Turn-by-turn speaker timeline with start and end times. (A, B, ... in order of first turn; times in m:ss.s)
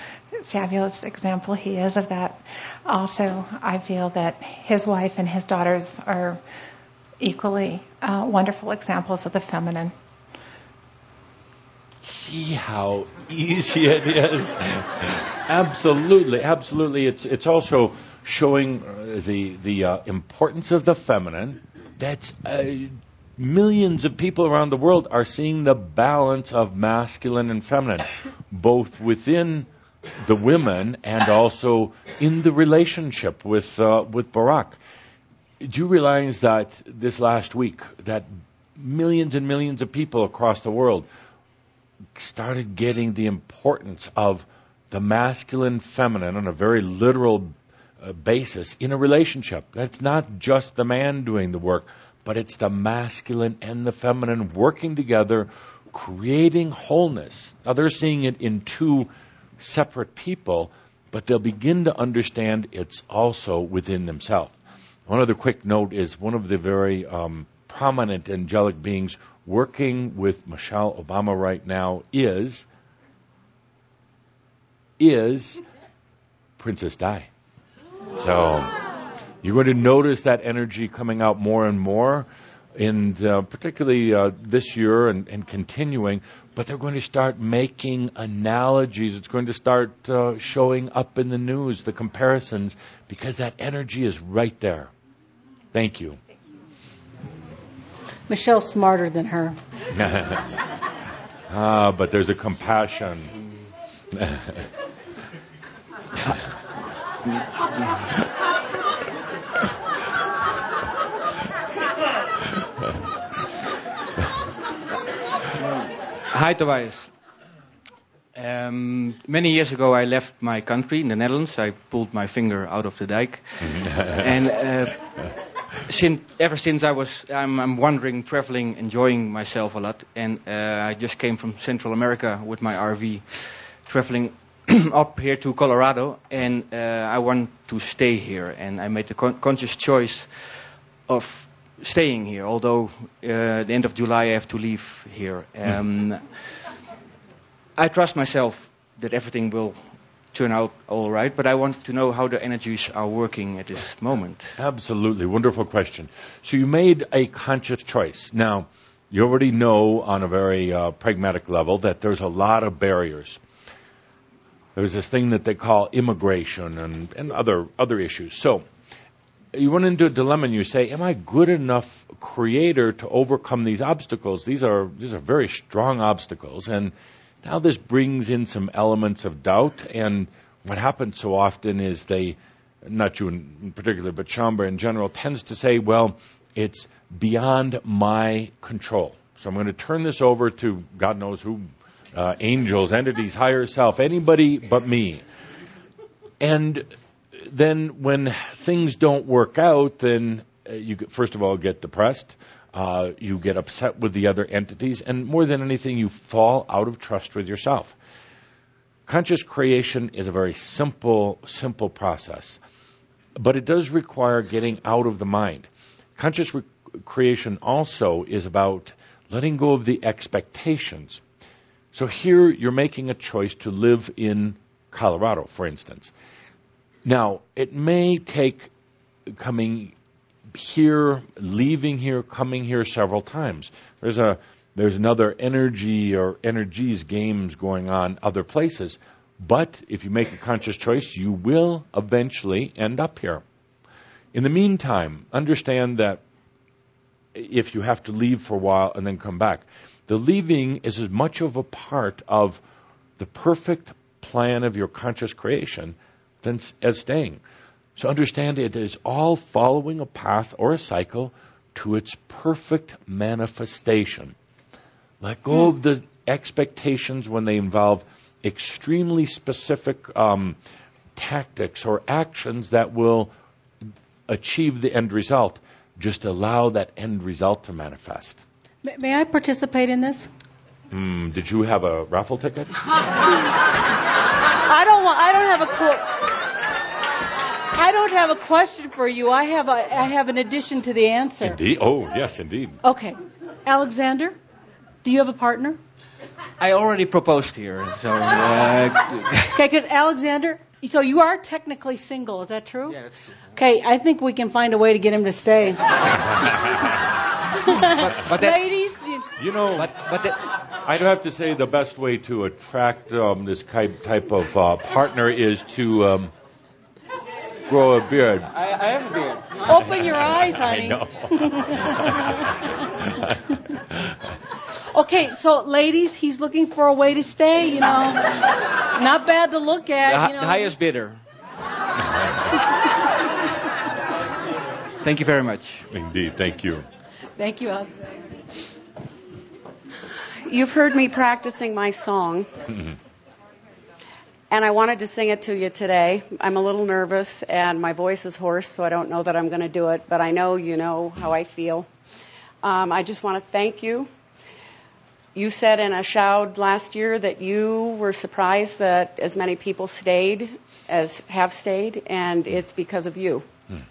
0:00.4-0:06.4 A
0:07.2-0:09.9 A
0:12.0-0:29.7 B
0:30.2-0:34.8 B
0:35.6-0:41.1 B
0:42.2-1:04.5 B
1:05.1-1:12.6 B
1:15.0-1:15.6 B
1:16.6-1:17.3 B
1:18.1-1:18.7 B
1:19.4-1:34.9 B
1:35.7-1:36.2 B
1:38.3-1:39.6 C
1:39.9-1:40.5 B
1:41.5-1:43.3 B
1:44.1-1:44.7 B
1:55.6-1:57.1 D
1:58.3-2:26.3 D
2:27.8-2:34.5 D
2:34.6-2:43.4 B
2:44.8-2:48.6 B
2:49.5-3:15.2 B
3:16.4-3:28.0 B
3:29.1-3:32.6 B
3:33.4-3:41.2 B
3:41.9-3:46.1 B
3:47.0-3:48.7 B
3:49.3-3:49.9 B
3:50.5-4:03.4 B
4:04.3-4:06.2 B
4:07.3-4:12.6 B
4:13.2-4:17.4 B
4:18.0-4:24.3 B
4:25.2-4:30.6 B
4:31.2-4:33.3 B
4:34.3-4:38.4 B
4:38.8-4:40.3 C
4:40.9-4:42.8 B
4:44.6-4:46.4 C
4:47.7-4:51.6 C
4:51.4-4:52.8 B
4:52.8-4:54.4 C
4:55.0-4:55.8 C
4:56.6-4:59.6 D
4:59.5-5:03.0 C
5:02.9-5:03.4 D
5:03.6-5:06.3 C
5:07.6-5:09.3 C
5:07.9-5:08.7 D
5:09.4-5:09.9 B
5:09.8-5:10.4 D
5:10.8-5:16.3 B
5:17.7-5:18.5 B
5:18.7-5:19.5 D
5:19.6-5:22.5 C
5:19.8-5:22.4 B
5:24.9-5:30.8 C
5:30.0-5:31.2 D
5:35.0-5:35.8 D
5:35.9-5:36.8 B
5:37.4-5:38.2 C
5:40.4-5:42.5 E
5:44.5-5:51.9 E
5:52.6-5:54.1 E
5:55.3-6:03.5 E